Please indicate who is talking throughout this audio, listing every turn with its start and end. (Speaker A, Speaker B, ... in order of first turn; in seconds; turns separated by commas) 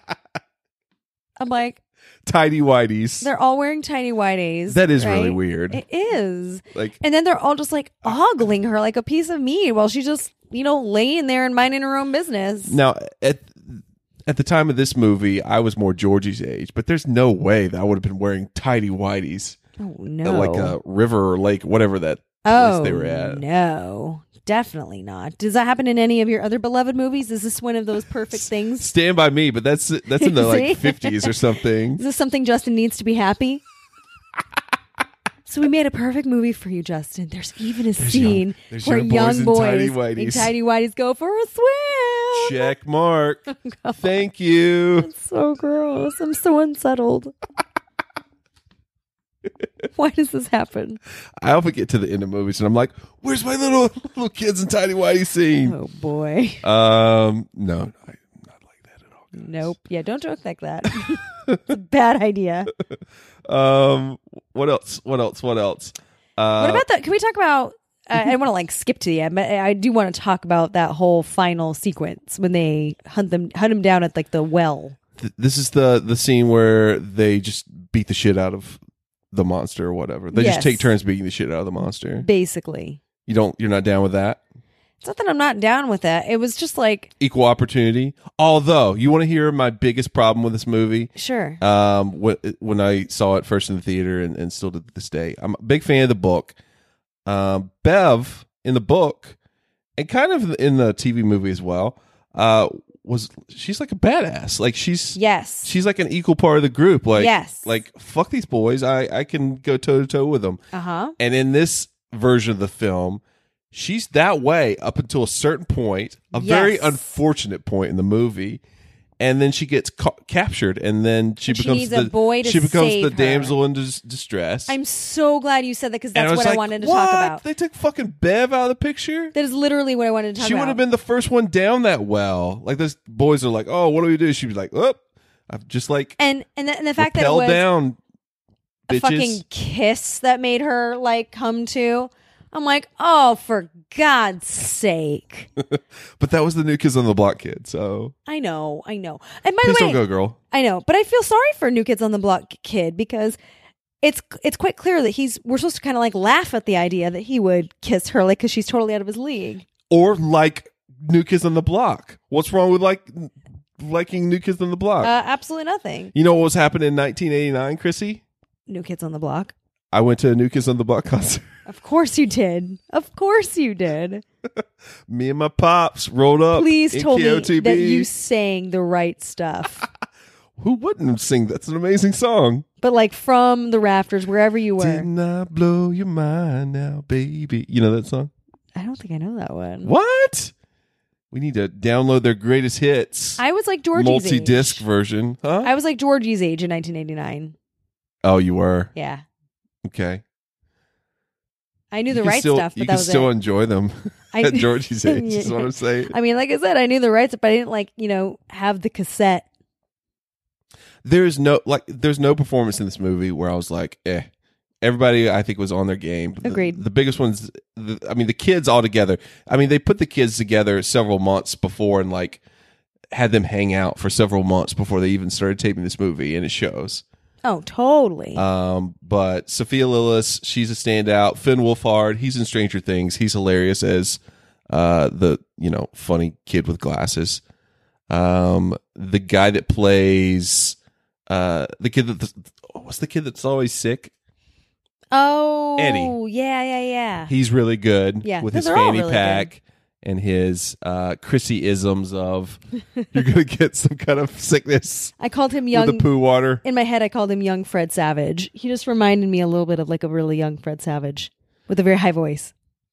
Speaker A: 1.4-1.8, Speaker B: 2.2-3.3, Speaker A: 3.2-12.8, Speaker B: 4.7-5.8, Speaker B: 12.7-19.6, Speaker A: 19.8-20.8, Speaker B: 20.2-23.4, Speaker A: 22.4-28.9, Speaker B: 28.3-32.0, Speaker A: 30.1-31.3, Speaker A: 32.0-33.6, Speaker A: 35.5-42.7, Speaker B: 38.0-40.5, Speaker B: 42.3-45.1, Speaker A: 43.6-44.0, Speaker A: 45.0-47.3, Speaker A: 49.9-51.0, Speaker B: 51.4-55.8, Speaker A: 55.6-56.6, Speaker B: 56.6-59.7, Speaker A: 59.3-62.7, Speaker B: 63.5-66.8, Speaker A: 66.6-75.0, Speaker B: 75.2-78.8, Speaker B: 79.3-82.2, Speaker A: 80.3-80.9, Speaker A: 82.2-83.0, Speaker B: 83.2-84.4, Speaker A: 85.0-87.1, Speaker B: 87.2-96.5, Speaker A: 91.2-91.6, Speaker B: 97.2-99.3, Speaker B: 100.0-110.6, Speaker A: 105.1-105.7, Speaker A: 107.1-107.7, Speaker A: 110.7-111.1, Speaker B: 111.2-113.2, Speaker B: 113.7-118.6, Speaker A: 116.3-117.2, Speaker B: 119.2-124.8, Speaker A: 121.5-123.5, Speaker A: 124.7-127.4, Speaker B: 126.1-129.3, Speaker A: 129.3-130.8, Speaker B: 130.4-136.2, Speaker A: 136.2-137.6, Speaker B: 137.0-138.0, Speaker A: 138.9-145.5, Speaker B: 138.9-139.4, Speaker B: 145.6-148.1, Speaker A: 148.3-153.4, Speaker B: 149.6-150.4, Speaker A: 154.0-159.7, Speaker B: 159.9-165.1, Speaker A: 165.0-166.1, Speaker B: 166.1-168.2, Speaker A: 168.7-169.5, Speaker B: 169.9-171.5, Speaker A: 171.7-174.2, Speaker B: 175.1-178.1, Speaker A: 176.5-179.8, Speaker B: 180.6-182.6, Speaker A: 182.8-185.1, Speaker B: 184.8-188.3, Speaker A: 188.7-189.9, Speaker B: 189.8-190.5, Speaker B: 191.3-193.4, Speaker A: 193.4-194.8, Speaker B: 193.9-195.7, Speaker A: 195.6-197.5, Speaker B: 198.2-198.9, Speaker A: 198.9-199.2, Speaker B: 199.8-200.2, Speaker A: 201.9-203.3, Speaker B: 202.1-206.1, Speaker A: 204.3-209.4, Speaker B: 211.0-214.3, Speaker B: 214.8-222.4, Speaker A: 216.4-216.8, Speaker B: 223.1-227.0, Speaker A: 227.4-228.4, Speaker B: 228.3-237.4, Speaker B: 238.1-240.8, Speaker B: 241.3-244.1, Speaker A: 245.1-247.3, Speaker B: 245.8-246.1, Speaker B: 247.3-252.6, Speaker A: 248.2-249.5, Speaker B: 253.1-255.1, Speaker A: 255.2-256.1, Speaker B: 255.7-256.6, Speaker A: 256.6-262.5